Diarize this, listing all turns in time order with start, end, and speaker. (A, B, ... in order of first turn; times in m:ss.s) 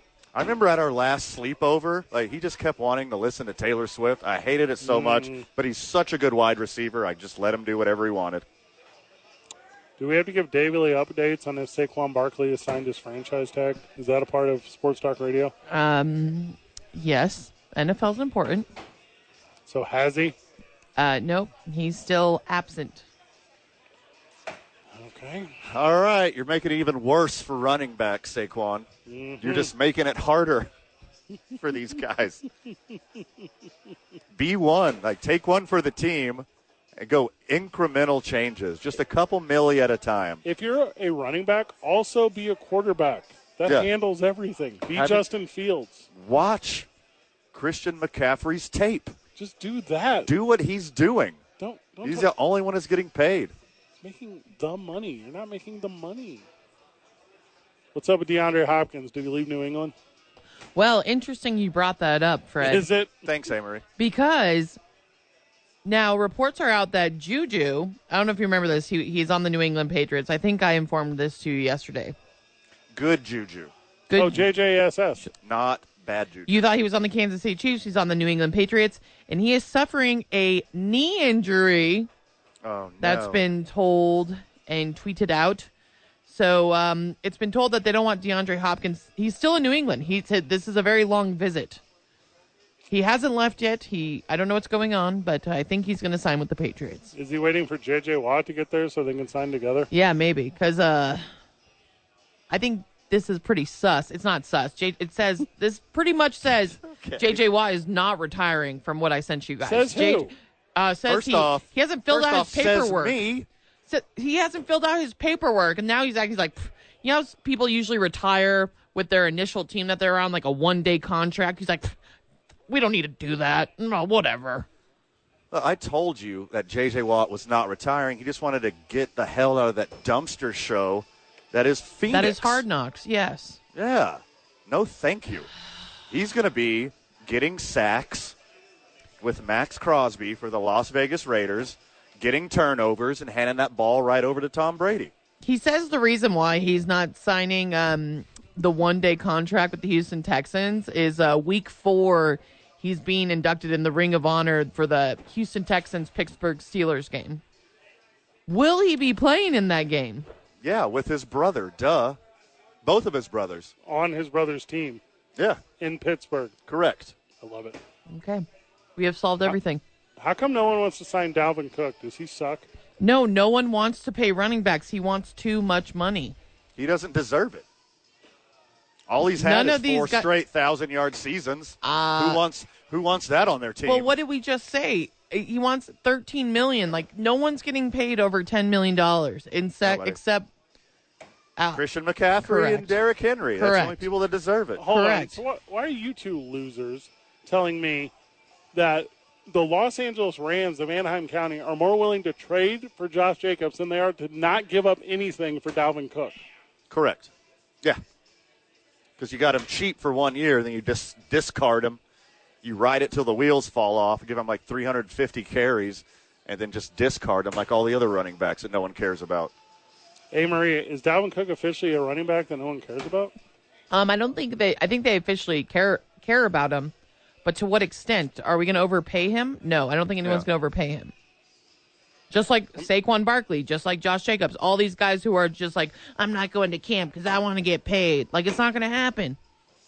0:00.3-0:08.4 A
0:04.8-0:05.5 B
0:10.0-0:15.5 B
0:15.7-0:18.7 C
0:19.7-0:20.4 B
0:21.0-0:23.1 C
0:24.9-0:25.6 B
0:25.6-0:28.9 A
0:29.1-0:29.7 B
0:29.4-0:30.7 A
0:31.6-0:32.4 A
0:34.3-0:40.4 A
0:40.4-0:46.1 B
0:44.9-0:45.2 A
0:46.1-0:46.9 A
0:47.5-0:49.2 A
0:49.4-0:50.3 B
0:50.3-0:51.4 A
0:51.6-0:52.3 B
0:52.0-0:53.5 A
0:54.0-0:56.5 B
0:58.0-0:59.9 B
1:00.8-1:02.9 C
1:02.6-1:03.1 B
1:03.2-1:03.8 A
1:04.0-1:04.8 C
1:05.8-1:12.2 C
1:12.9-1:13.7 A
1:14.1-1:14.4 C
1:14.1-1:15.2 B
1:15.4-1:16.6 A
1:16.5-1:22.1 C
1:22.6-1:23.4 A
1:23.0-1:25.7 C
1:26.3-1:31.8 C
1:32.9-1:37.1 C
1:37.2-1:39.9 B
1:39.9-1:41.3 C
1:42.5-1:53.2 C
1:46.8-1:47.4 A
1:49.6-1:50.3 B
1:51.1-1:53.5 A
1:53.9-2:02.0 C
2:02.7-2:04.7 C
2:05.5-2:12.6 A
2:12.1-2:13.6 C
2:13.8-2:15.5 A
2:16.1-2:18.4 A
2:19.2-2:25.1 A
2:25.4-2:37.4 C
2:38.5-2:40.3 C
2:40.6-2:42.2 A
2:42.8-2:43.7 A
2:43.9-2:45.0 B
2:45.4-2:45.6 A
2:45.8-2:46.6 B
2:46.7-2:47.2 A
2:47.4-2:47.8 B
2:48.1-2:48.4 C
2:49.0-2:49.8 C
2:50.2-2:52.7 B
2:53.0-2:56.4 C
2:56.8-2:57.6 A
2:59.1-3:04.1 A
2:59.3-3:00.3 C
3:01.8-3:02.4 C
3:03.8-3:10.5 C
3:09.8-3:10.2 A
3:11.6-3:11.8 C
3:11.7-3:14.8 A
3:12.4-3:13.0 C
3:13.6-3:14.0 C
3:14.8-3:18.1 B
3:14.9-3:15.4 C
3:18.7-3:26.4 B
3:26.9-3:27.3 A
3:29.2-3:32.0 A
3:32.6-3:39.5 A
3:40.3-3:43.3 B
3:43.9-3:46.9 C
3:47.4-3:51.1 C
3:52.3-3:59.4 C